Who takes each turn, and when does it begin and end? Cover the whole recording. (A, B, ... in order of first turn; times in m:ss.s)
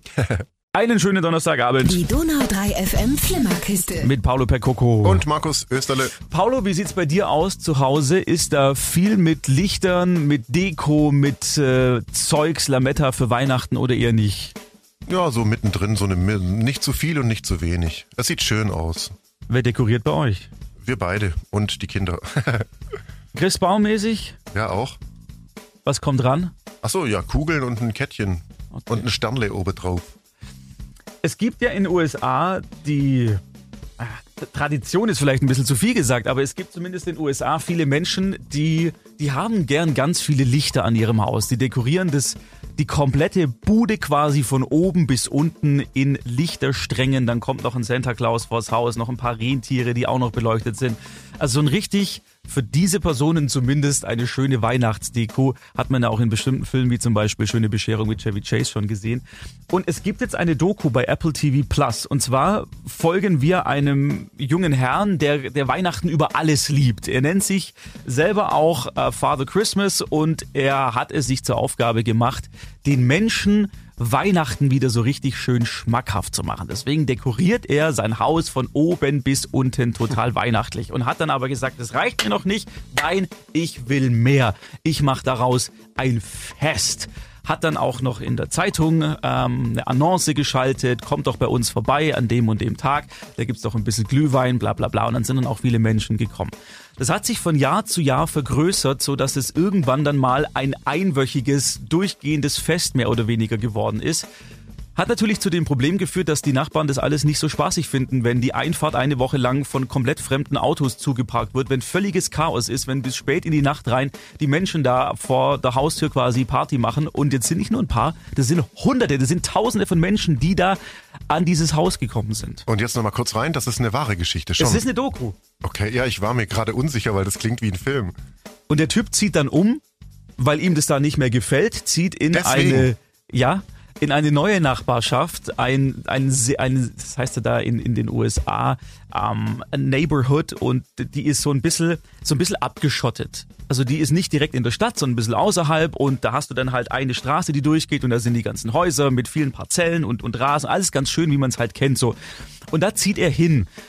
0:00.2-0:00.4 A
0:00.7-0:02.1 B
0:01.8-0:04.1 C
0:04.0-0:05.2 B
0:05.0-0:06.1 A
0:06.2-0:14.6 B
0:15.1-0:19.2 A
0:19.5-0:20.5 B
0:20.8-0:22.7 A
0:23.3-0:24.4 B
0:24.5-0:25.0 A
0:25.8-0:26.5 B
0:26.8-0:30.1 A
0:28.8-0:29.0 B
0:31.2-0:33.4 B
0:34.0-1:44.3 B
1:45.0-2:00.8 B
2:01.3-2:02.6 B
2:02.7-2:04.9 A
2:04.6-2:05.4 B
2:05.6-2:08.1 A
2:08.7-2:09.8 B
2:10.4-2:32.2 B
2:12.3-2:12.9 A
2:32.7-2:33.7 B